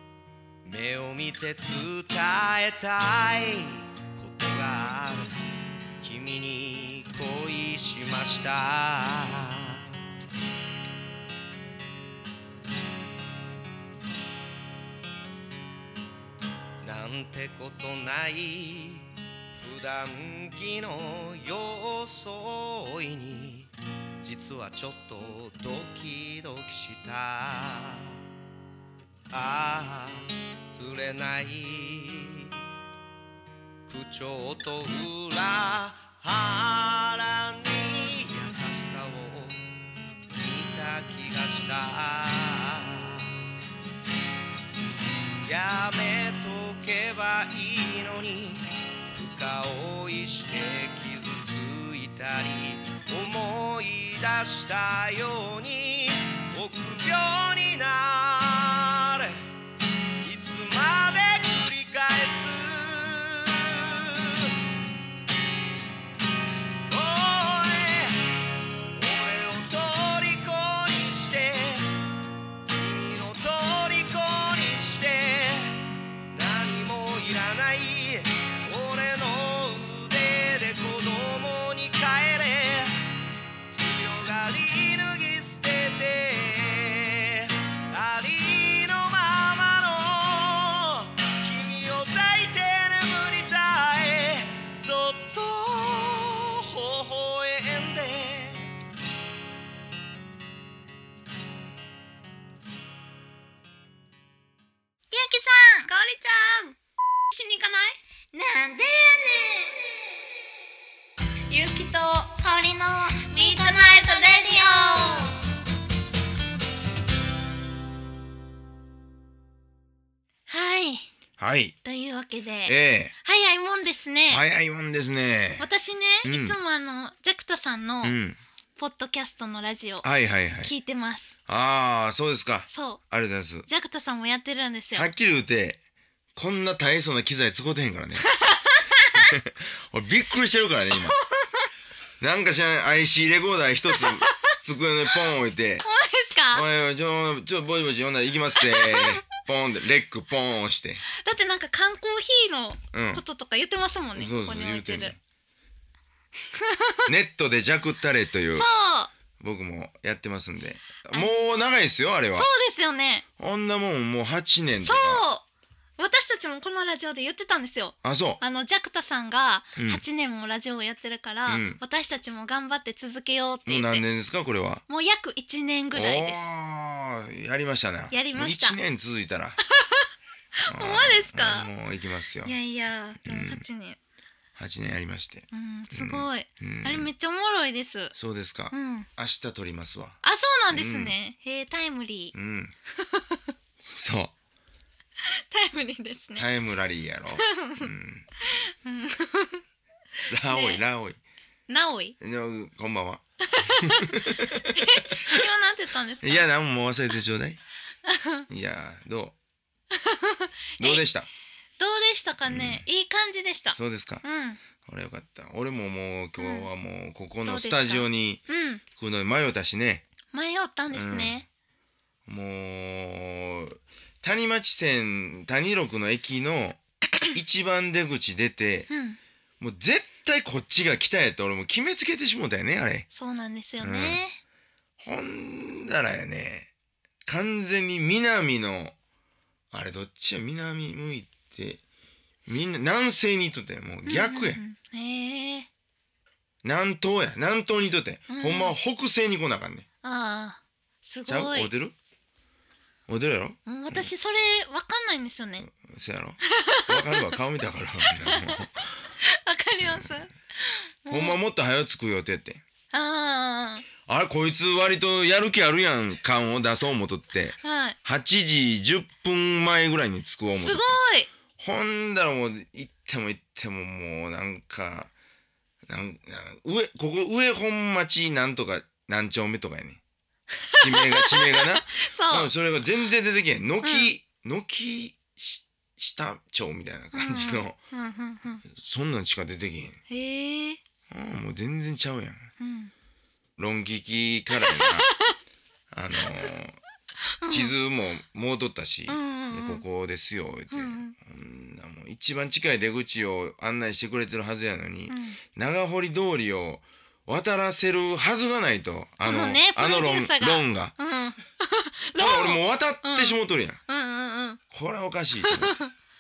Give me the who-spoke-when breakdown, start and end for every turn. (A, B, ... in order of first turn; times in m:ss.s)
0:00.6-0:05.4 A
0:06.0-0:10.0 A
0:16.8-0:28.2 A
0:29.3-0:32.6 A
0:33.9-0:39.7 A
0:40.3-0:43.4 A
0:45.4-0:59.4 A
1:00.2-1:04.6 A
1:06.9-1:08.4 A
1:08.9-1:12.0 A
1:12.7-1:23.0 A
1:23.7-1:38.7 A
1:45.1-1:46.8 B
1:47.3-1:50.0 B
1:51.5-1:55.4 B
2:00.5-2:01.1 B
2:01.4-2:01.8 C
2:01.8-2:04.4 B
2:02.6-2:03.1 C
2:04.3-2:05.7 C
2:05.6-2:08.2 B
2:06.2-2:06.6 C
2:08.0-2:08.4 C
2:08.8-2:10.1 B
2:10.0-2:10.7 C
2:10.6-2:11.4 B
2:11.5-2:13.7 C
2:12.7-2:13.0 B
2:13.7-2:15.1 B
2:15.0-2:15.8 C
2:16.4-2:18.3 C
2:18.3-2:19.3 B
2:19.1-2:21.2 C
2:21.1-2:21.6 B
2:22.2-2:25.8 C
2:23.9-2:24.6 B
2:25.8-2:26.6 B
2:26.5-2:31.0 C
2:28.6-2:29.2 B
2:31.1-2:35.1 B
2:32.9-2:33.2 C
2:34.2-2:35.2 C
2:36.5-2:37.1 B
2:37.1-2:38.7 C
2:38.5-2:39.1 B
2:39.4-2:42.5 C
2:42.3-2:43.2 B
2:43.4-2:45.2 C
2:44.8-2:45.4 B
2:46.0-2:54.0 B
2:48.0-2:48.4 C
2:49.8-2:50.0 C
2:51.5-2:51.8 C
2:53.7-2:54.8 C
2:54.9-2:56.5 B
2:55.9-2:59.6 C
2:58.1-2:58.8 B
2:59.7-3:01.7 B
3:00.7-3:02.6 C
3:02.4-3:04.0 B
3:03.2-3:03.6 C
3:04.6-3:07.1 C
3:05.5-3:08.1 B
3:08.1-3:10.2 C
3:08.7-3:09.1 B
3:10.2-3:12.4 B
3:10.7-3:11.1 C
3:12.3-3:12.7 C
3:13.0-3:13.4 B
3:13.8-3:14.3 C
3:15.3-3:16.5 B
3:16.4-3:18.3 C
3:17.4-3:17.9 B
3:18.5-3:19.6 B
3:20.3-3:21.2 C
3:20.4-3:20.8 B
3:21.7-3:22.2 B
3:22.2-3:25.4 C
3:23.4-3:26.5 B
3:26.2-3:27.6 C
3:28.1-3:28.5 B
3:28.5-3:29.4 C
3:29.9-3:31.0 B
3:30.8-3:31.3 C
3:31.8-3:34.6 B
3:32.5-3:32.9 C
3:33.7-3:34.2 C
3:34.8-3:38.4 C
3:36.4-3:36.7 B
3:37.4-3:38.8 B
3:38.9-3:40.0 C
3:40.3-3:41.5 B
3:40.9-3:41.4 C
3:42.3-3:48.9 C
3:48.9-3:49.2 B
3:49.6-3:53.1 C
3:53.1-3:54.4 B
3:53.8-3:54.2 C
3:55.0-3:56.7 C
3:57.2-3:59.0 C
3:59.7-4:01.8 C
4:02.5-4:04.6 C
4:04.1-4:05.7 B
4:06.6-4:09.8 C
4:08.3-4:08.8 B
4:10.0-4:11.7 B
4:11.3-4:12.0 C
4:13.1-4:14.1 C
4:13.6-4:15.7 B
4:15.6-4:18.9 C
4:16.4-4:17.3 B
4:18.1-4:18.6 B
4:19.2-4:21.4 B
4:19.8-4:20.2 C
4:21.1-4:22.6 C
4:22.9-4:23.9 B
4:24.1-4:31.0 C
4:27.6-4:28.0 B
4:30.5-4:31.3 B
4:31.6-4:35.1 C
4:35.9-4:40.0 C
4:40.6-4:42.5 B
4:40.8-4:47.8 C
4:43.8-4:44.1 B
4:47.1-4:48.6 B
4:48.7-4:50.0 C
4:50.1-4:50.8 B
4:51.1-4:52.5 C
4:52.6-4:52.9 B
4:53.6-4:55.1 C
4:54.6-4:55.4 B
4:55.9-4:56.8 C
4:57.4-4:57.7 B
4:57.5-5:10.9 C
4:59.1-4:59.8 B
5:00.7-5:01.1 B
5:05.1-5:05.4 B
5:09.2-5:14.6 B
5:12.2-5:13.8 C
5:14.7-5:15.8 C
5:15.4-5:15.9 B